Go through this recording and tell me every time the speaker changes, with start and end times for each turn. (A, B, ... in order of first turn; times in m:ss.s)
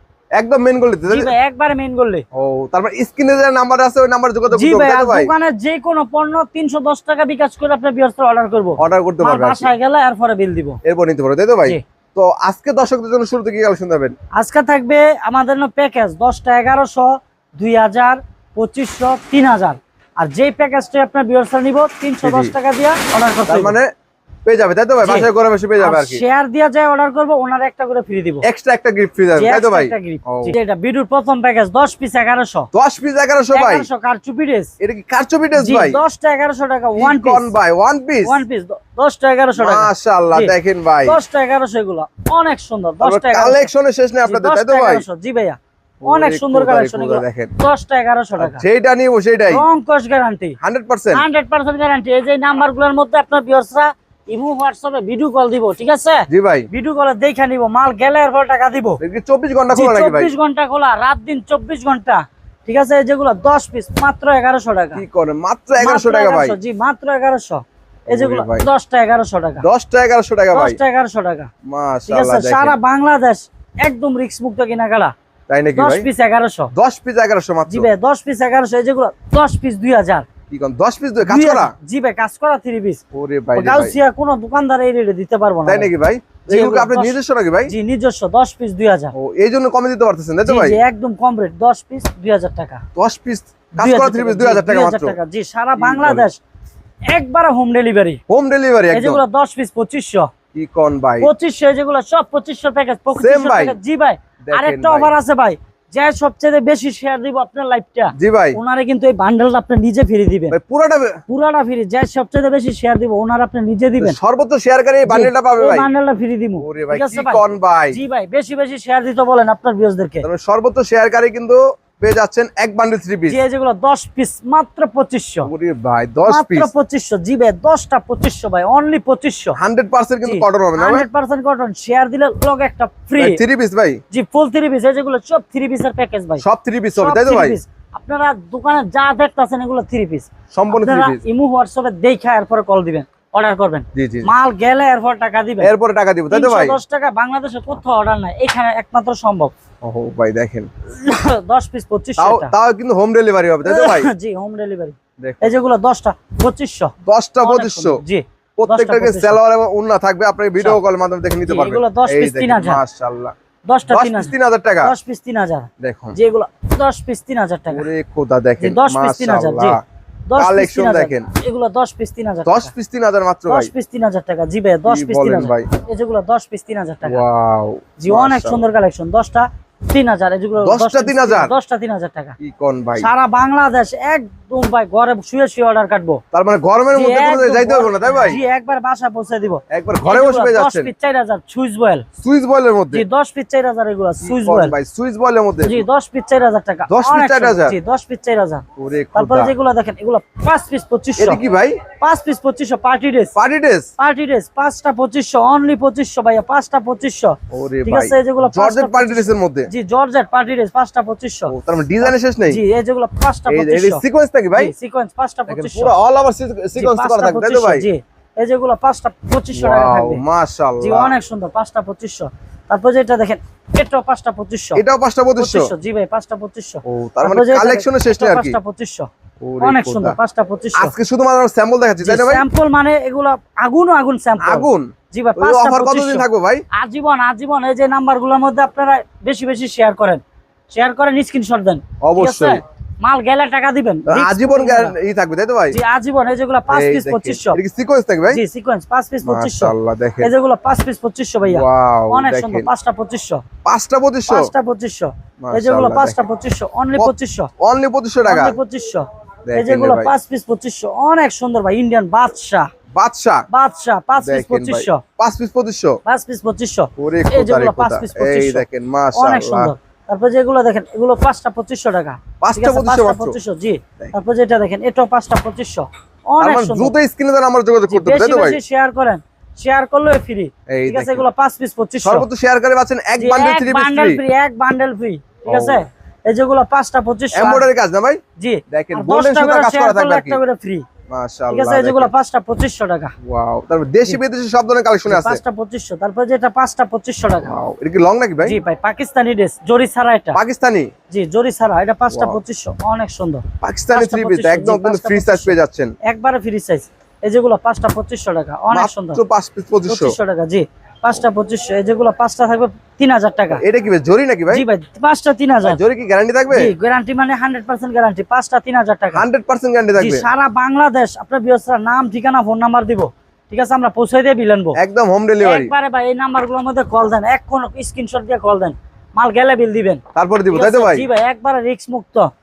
0:00.4-0:01.3 A
0:01.1-0:02.2 B
0:02.3-0:05.3 A
0:04.5-0:10.8 B
0:08.8-0:09.7 A
0:10.8-0:14.1 A
0:14.4-0:23.8 B
0:22.2-0:22.5 A
0:23.5-0:23.9 A
0:24.4-0:26.2 A
0:25.0-0:28.4 B
0:28.4-0:30.6 A
0:29.4-0:32.7 B
0:32.7-0:33.9 A
0:33.5-0:34.7 B
0:34.8-0:36.0 A
0:35.6-0:37.5 B
0:37.0-0:38.4 A
0:38.2-0:40.5 B
0:39.6-0:41.2 A
0:41.0-0:43.7 B
0:43.0-0:45.0 A
0:44.2-0:48.6 B
0:46.0-0:47.5 A
0:48.4-0:49.6 A
0:49.5-0:50.6 B
0:50.6-0:51.2 A
0:51.1-0:59.0 B
0:56.3-0:56.7 A
0:59.0-1:00.3 A
0:59.7-1:05.0 B
1:04.9-1:06.6 A
1:05.8-1:09.6 B
1:08.1-1:08.7 A
1:09.6-1:10.8 A
1:10.5-1:11.5 B
1:11.6-1:12.8 A
1:12.1-1:15.1 B
1:15.5-1:16.1 A
1:15.7-1:16.7 B
1:16.7-1:17.9 A
1:17.7-1:20.3 B
1:20.5-1:21.7 A
1:21.2-1:23.0 B
1:23.1-1:23.9 A
1:23.5-1:25.9 B
1:25.6-1:27.7 A
1:26.5-1:27.2 B
1:27.7-1:29.1 B
1:29.1-1:30.8 A
1:30.4-1:32.8 B
1:32.9-1:35.2 A
1:33.8-1:36.4 B
1:35.8-1:36.3 A
1:37.1-1:38.2 B
1:38.3-1:39.2 A
1:38.9-1:40.3 B
1:40.5-1:41.3 A
1:41.2-1:50.6 B
1:43.1-1:43.8 A
1:44.4-1:45.1 A
1:48.2-1:48.6 A
1:50.5-1:51.2 A
1:51.3-1:54.2 B
1:54.0-1:55.9 A
1:55.0-2:00.2 B
1:56.6-1:58.0 A
2:00.2-2:03.4 A
2:03.3-2:05.5 B
2:05.4-2:06.7 A
2:06.2-2:09.6 B
2:09.5-2:11.0 A
2:10.2-2:13.4 B
2:13.2-2:14.0 A
2:14.1-2:16.4 B
2:16.4-2:17.6 A
2:17.0-2:25.7 B
2:20.5-2:21.2 A
2:23.9-2:24.3 A
2:25.6-2:26.8 A
2:26.3-2:29.5 B
2:29.8-2:30.7 A
2:30.9-2:32.5 B
2:32.2-2:34.1 A
2:33.6-2:39.4 B
2:35.2-2:35.6 A
2:37.0-2:38.0 A
2:38.6-2:43.3 A
2:41.4-2:42.8 B
2:43.6-2:47.9 B
2:43.9-2:44.9 A
2:45.8-2:46.2 A
2:47.7-2:49.8 A
2:48.6-2:52.7 B
2:50.4-2:51.3 A
2:52.4-2:53.7 A
2:53.5-2:57.2 B
2:54.8-2:55.7 A
2:57.0-2:58.6 A
2:58.0-3:02.4 B
3:00.6-3:01.5 A
3:02.4-3:03.1 A
3:03.0-3:06.2 B
3:06.3-3:08.4 A
3:06.9-3:12.1 B
3:09.7-3:10.9 A
3:12.2-3:13.0 A
3:12.9-3:14.7 B
3:14.2-3:15.8 A
3:15.6-3:21.4 B
3:16.9-3:17.8 A
3:18.8-3:19.5 A
3:21.2-3:21.8 A
3:22.0-3:23.3 B
3:23.3-3:23.9 A
3:24.0-3:34.0 B
3:27.5-3:29.7 A
3:31.5-3:32.6 A
3:33.5-3:34.7 A
3:34.5-3:35.9 B
3:35.5-3:37.8 A
3:36.7-3:40.2 B
3:39.5-3:41.1 A
3:40.8-3:44.8 B
3:44.7-3:45.7 A
3:45.4-3:49.1 B
3:46.8-3:48.6 A
3:49.4-3:50.2 A
3:49.6-3:50.9 B
3:50.7-3:52.4 A
3:52.0-4:04.9 B
3:54.4-3:56.6 A
4:02.0-4:02.6 A
4:04.1-4:05.8 A
4:05.7-4:07.6 B
4:06.7-4:08.4 A
4:08.3-4:13.4 B
4:09.2-4:10.3 A
4:11.4-4:12.7 A
4:13.6-4:14.5 A
4:14.3-4:17.5 B
4:15.4-4:16.2 A
4:17.0-4:18.6 A
4:18.2-4:22.7 B
4:19.5-4:20.1 A
4:22.9-4:23.4 A
4:23.5-4:25.0 B
4:24.2-4:26.0 A
4:26.0-4:36.9 B
4:27.0-4:29.7 A
4:32.4-4:33.4 A
4:36.4-4:38.6 A
4:37.9-4:42.2 B
4:40.7-4:41.2 A
4:42.0-4:44.2 A
4:43.2-4:47.7 B
4:45.5-4:45.8 A
4:47.3-4:50.4 A
4:48.4-4:50.8 B
4:51.1-4:52.1 A
4:51.5-4:53.1 B
4:53.2-4:55.4 A
4:55.1-4:57.6 B
4:57.4-4:58.6 A
4:58.4-5:00.4 B
5:00.3-5:00.9 A
5:01.1-5:09.2 B
5:02.1-5:02.4 A
5:03.6-5:05.9 A
5:08.7-5:10.1 A
5:09.9-5:13.6 B
5:13.5-5:14.6 A
5:14.5-5:15.8 B
5:15.6-5:16.7 A
5:16.5-5:19.2 B
5:19.1-5:20.3 A
5:20.0-5:24.8 B
5:24.8-5:25.7 A
5:25.4-5:32.3 B
5:30.2-5:31.1 A